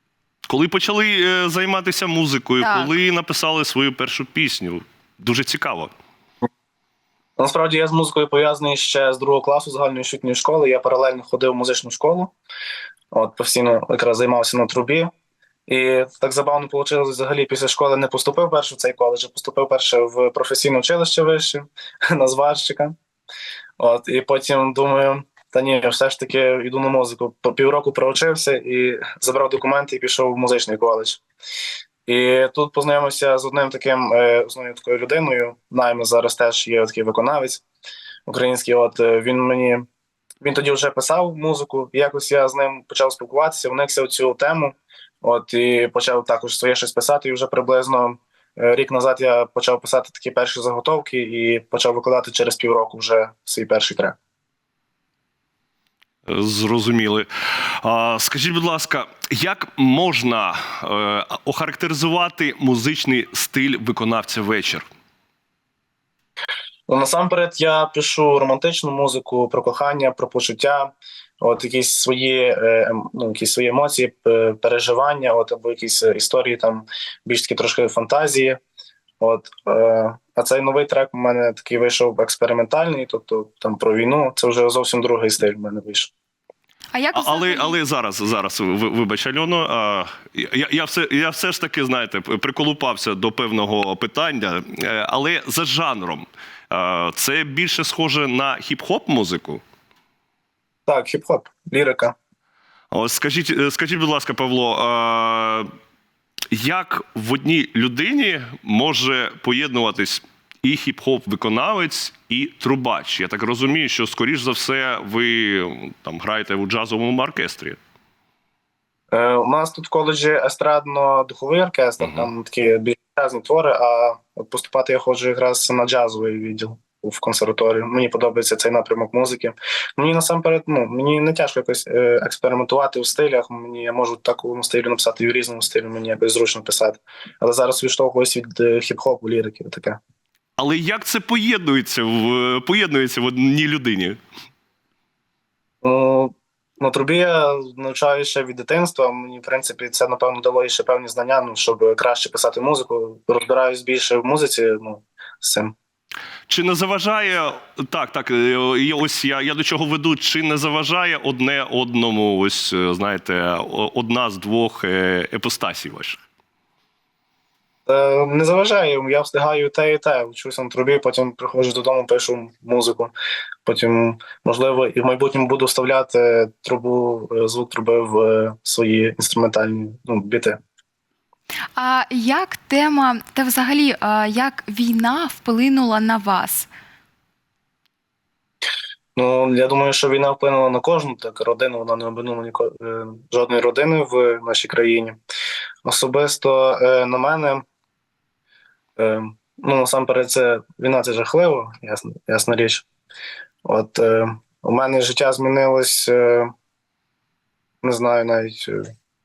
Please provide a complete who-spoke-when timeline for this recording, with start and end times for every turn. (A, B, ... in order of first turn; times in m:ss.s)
0:00.5-0:05.9 A
0:02.6-0:02.9 B
0:07.4-0:12.3 C
0:13.1-0:15.1 C
0:15.7-0:23.0 C
0:23.8-0:31.2 C
0:32.1-0:37.6 C
0:38.2-0:39.8 C
0:40.4-0:54.2 C
0:56.3-1:04.8 A
1:06.9-1:18.6 C
1:19.2-1:26.1 C
1:26.9-1:27.8 B
1:27.1-1:39.6 A
1:40.9-1:42.2 C
1:42.9-1:45.7 A
1:46.5-1:57.8 A
1:59.1-2:20.0 C
2:02.0-2:02.3 A
2:20.6-2:24.2 A
2:25.8-2:35.7 C
2:36.5-2:46.2 A
2:47.8-2:53.1 C
2:53.6-3:00.6 C
3:01.8-3:06.7 B
3:09.2-3:15.2 C
3:15.8-3:17.6 C
3:19.0-3:22.8 C
3:23.6-3:26.5 C
3:27.8-3:28.9 C